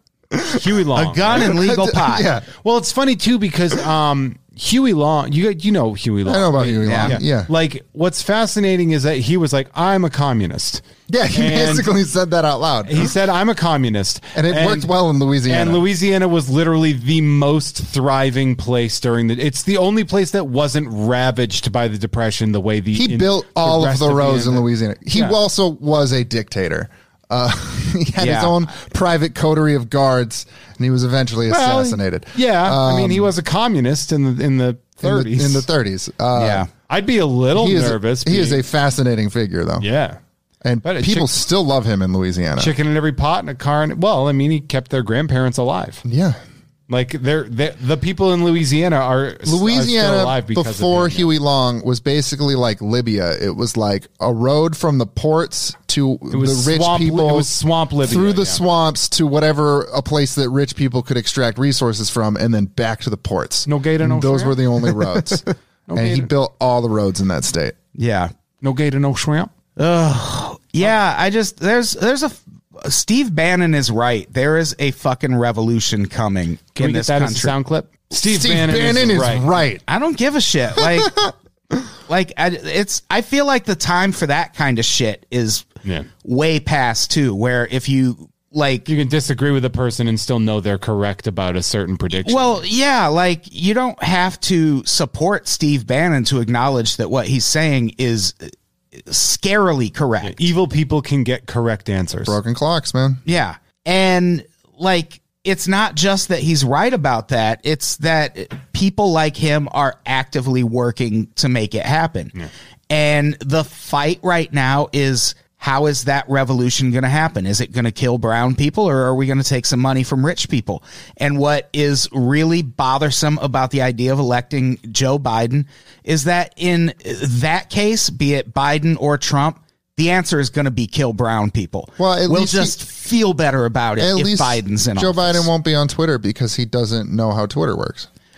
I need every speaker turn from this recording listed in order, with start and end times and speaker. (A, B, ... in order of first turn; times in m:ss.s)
0:00.3-0:00.7 A
0:00.5-0:01.5 B
0:00.9-0:02.3 C
0:01.3-0:02.5 A
0:02.6-0:11.9 B
0:06.2-0:07.5 A
0:06.8-0:07.2 C
0:11.1-0:13.1 A
0:12.8-0:14.9 B
0:14.3-0:15.8 A
0:15.5-0:25.4 B
0:22.9-0:33.3 A
0:28.2-0:28.6 C
0:31.5-0:35.6 B
0:35.0-0:36.7 A
0:36.3-0:36.7 C
0:36.9-0:38.6 B
0:37.5-0:39.8 A
0:39.8-0:40.2 B
0:40.6-0:42.7 A
0:40.8-0:41.3 B
0:42.6-0:46.0 B
0:46.0-0:46.4 A
0:46.9-0:51.3 B
0:49.4-0:57.5 A
0:56.3-0:58.6 B
0:58.0-1:07.7 A
1:03.6-1:04.6 B
1:05.9-1:06.3 B
1:08.0-1:08.3 C
1:08.6-1:09.5 B
1:09.8-1:17.5 C
1:16.8-1:19.6 B
1:18.1-1:19.8 A
1:19.9-1:21.2 C
1:20.8-1:21.3 A
1:22.1-1:25.7 C
1:26.2-1:28.9 C
1:28.8-1:32.6 B
1:32.2-1:40.4 C
1:40.2-1:42.4 B
1:42.2-1:43.2 A
1:43.2-1:52.3 C
1:52.9-2:15.5 C
2:12.0-2:12.8 A
2:14.0-2:18.1 A